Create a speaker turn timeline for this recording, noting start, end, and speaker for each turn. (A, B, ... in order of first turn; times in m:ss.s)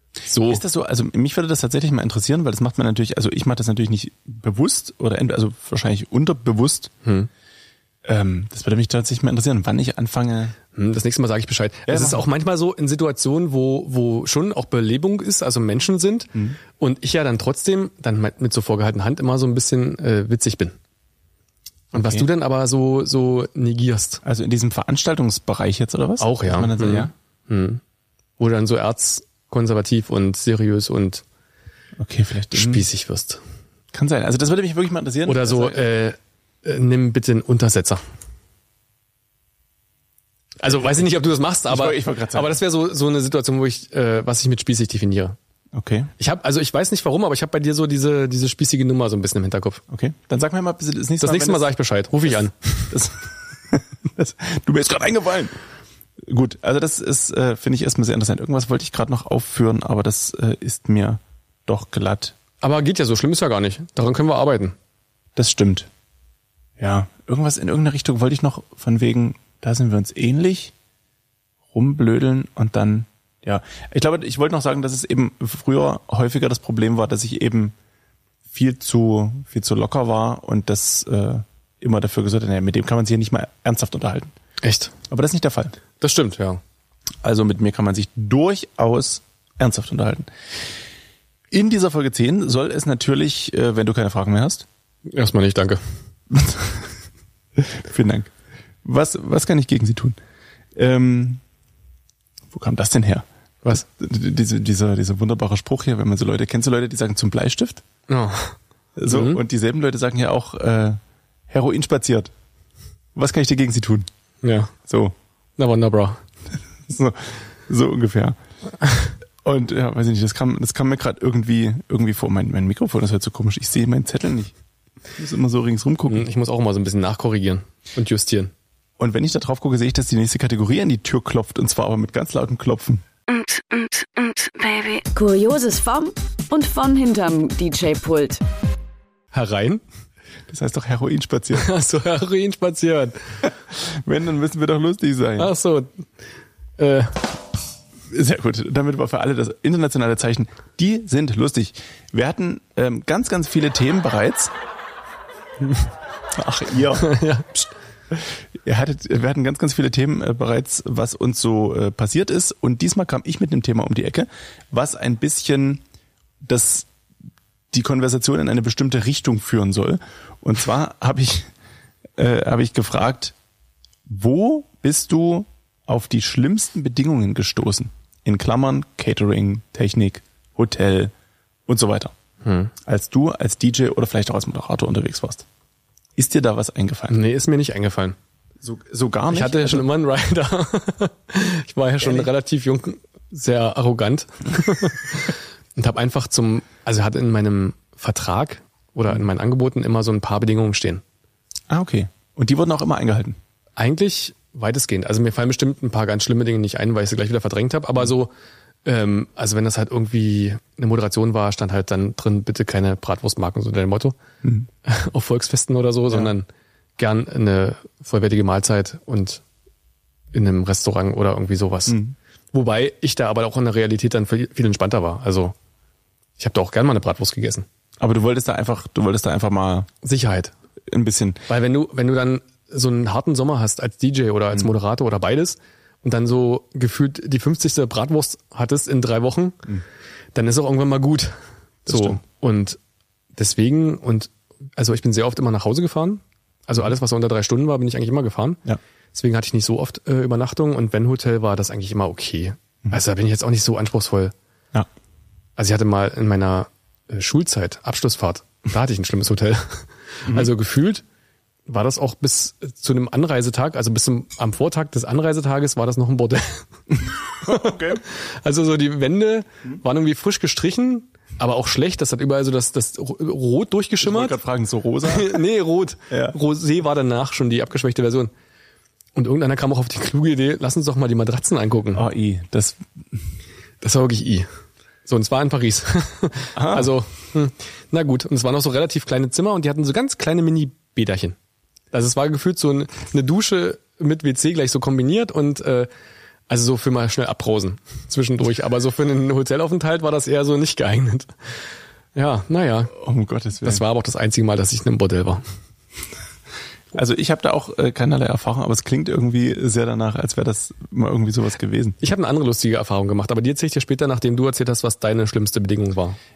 0:00.3-0:00.6 A
0:00.5-0:06.9 B
0:07.0-0:07.3 A
0:08.0-0:10.6 B
0:10.7-0:20.8 A
0:11.9-0:12.2 B
0:21.9-0:22.3 B
0:21.9-0:24.2 A
0:24.2-0:27.1 B
0:26.2-0:27.8 A
0:28.4-0:31.2 A
0:32.0-0:32.8 B
0:32.5-0:33.4 A
0:33.9-0:35.8 B
0:35.2-0:38.0 A
0:40.6-0:45.4 A
0:41.7-0:42.5 B
0:45.7-0:46.1 B
0:46.2-0:49.8 A
0:49.9-0:51.7 B
0:51.2-0:52.9 A
0:52.2-0:55.6 B
0:56.2-1:02.3 B
1:02.6-1:04.7 A
1:05.4-1:05.9 B
1:06.8-1:10.7 B
1:11.7-1:17.7 B
1:18.5-1:24.3 B
1:24.6-1:24.9 A
1:25.1-1:25.7 B
1:26.0-1:26.6 A
1:27.2-1:30.3 B
1:31.5-1:34.6 B
1:35.1-1:35.8 A
1:36.3-1:36.9 B
1:37.6-1:38.3 B
1:38.8-1:40.2 B
1:40.8-1:41.4 B
1:42.5-1:47.8 B
1:48.1-1:48.6 A
1:49.0-1:52.3 B
1:49.1-1:49.4 A
1:53.1-1:54.1 B
1:54.4-1:54.7 A
1:54.8-1:55.1 B
1:55.6-1:56.2 A
1:56.9-1:58.4 B
1:59.4-2:04.5 B
2:05.2-2:06.2 B
2:06.1-2:08.5 A
2:09.0-2:13.0 B
2:13.3-2:18.4 C
2:19.3-2:19.8 A
2:20.5-2:21.7 B
2:21.5-2:23.2 A
2:23.7-2:25.5 B
2:25.4-2:25.9 A
2:26.8-2:27.2 A
2:28.1-2:34.5 B
2:36.3-2:37.1 B
2:37.0-2:37.6 A
2:38.1-2:45.8 B
2:46.4-2:46.9 B
2:47.7-2:51.5 B
2:52.2-2:53.3 B
2:54.1-3:01.1 B
3:01.7-3:02.1 B
3:02.4-3:02.7 A
3:02.8-3:05.4 B
3:06.2-3:07.2 B
3:07.1-3:08.2 A
3:08.6-3:09.9 B
3:09.3-3:21.0 A
3:12.0-3:12.3 B
3:21.7-3:23.4 B
3:23.8-3:28.3 A
3:28.8-3:34.2 A
3:34.4-3:34.7 B
3:34.8-3:36.5 A
3:37.0-3:39.4 A
3:40.3-3:42.0 A
3:41.9-3:42.1 B
3:42.5-3:45.5 A
3:46.4-3:47.6 A
3:48.0-3:49.9 B
3:50.0-3:50.5 A
3:50.9-3:51.4 B
3:51.5-3:59.7 A
4:00.3-4:01.3 A
4:01.8-4:02.8 A
4:01.9-4:02.2 B
4:03.4-4:08.6 A
4:09.1-4:14.3 A
4:15.6-4:21.0 A
4:21.7-4:34.4 A
4:26.9-4:28.0 B
4:34.0-4:35.4 B
4:35.0-4:38.3 A
4:36.1-4:36.4 B
4:39.1-4:42.0 A
4:41.9-4:42.8 B
4:43.8-4:44.5 A
4:45.0-4:51.4 A
4:46.5-4:46.9 B
4:51.9-4:55.9 A
4:56.5-5:01.3 A
5:02.1-5:02.9 A
5:02.9-5:03.8 B
5:03.6-5:05.4 A
5:06.9-5:12.0 B
5:12.0-5:16.2 A